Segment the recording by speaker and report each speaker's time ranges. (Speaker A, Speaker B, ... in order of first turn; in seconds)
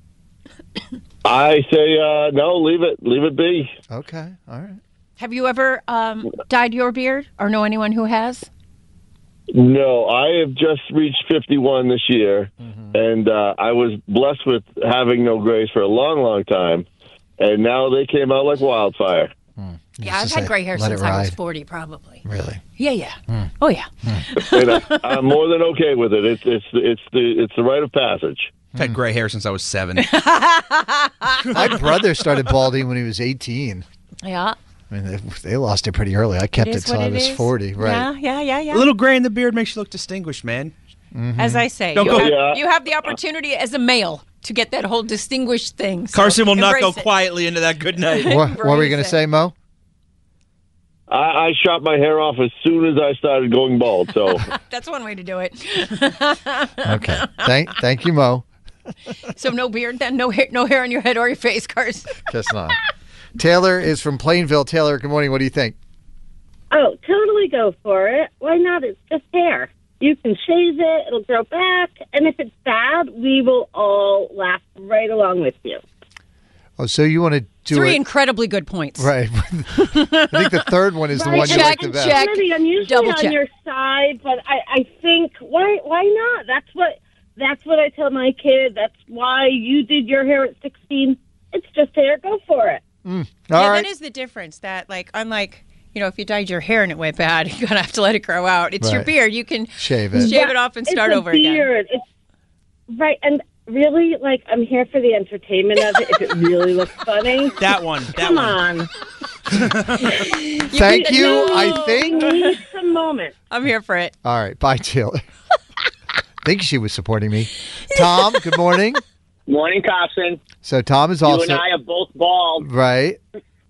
Speaker A: 1.2-3.7, 9.5-16.9, 17.4-19.3, 24.4-28.5, 42.3-42.5, 51.1-54.4
Speaker B: 3.9-4.8, 12.6-12.9, 19.6-21.4, 22.2-22.6, 24.0-24.4, 31.5-33.8, 34.9-38.1, 41.1-41.6, 48.2-49.5, 56.8-58.4, 62.3-62.8, 63.4-65.8, 76.8-78.0, 79.0-82.3, 93.0-93.9, 98.8-99.1, 99.8-100.3, 110.7-112.3, 114.2-115.2, 116.4-119.0, 120.6-121.6, 122.6-123.2
Speaker C: 5.2-8.5, 20.0-22.2, 22.8-25.2, 30.0-31.5, 34.2-34.5, 36.6-38.9, 41.4-47.1, 48.1-49.2, 54.5-57.2, 59.3-62.2, 77.7-79.1, 79.8-80.7, 81.3-83.4, 93.5-101.7, 110.2-112.5, 113.5-114.1
Speaker D: 28.8-30.1, 38.7-40.7, 41.9-42.4, 46.1-48.4, 107.6-108.7, 109.5-110.2
Speaker E: 66.7-75.8, 81.2-92.8, 100.3-102.0, 103.0-107.5, 108.2-108.8, 111.1-111.9, 112.8-113.3
Speaker F: 119.5-120.4, 121.2-122.6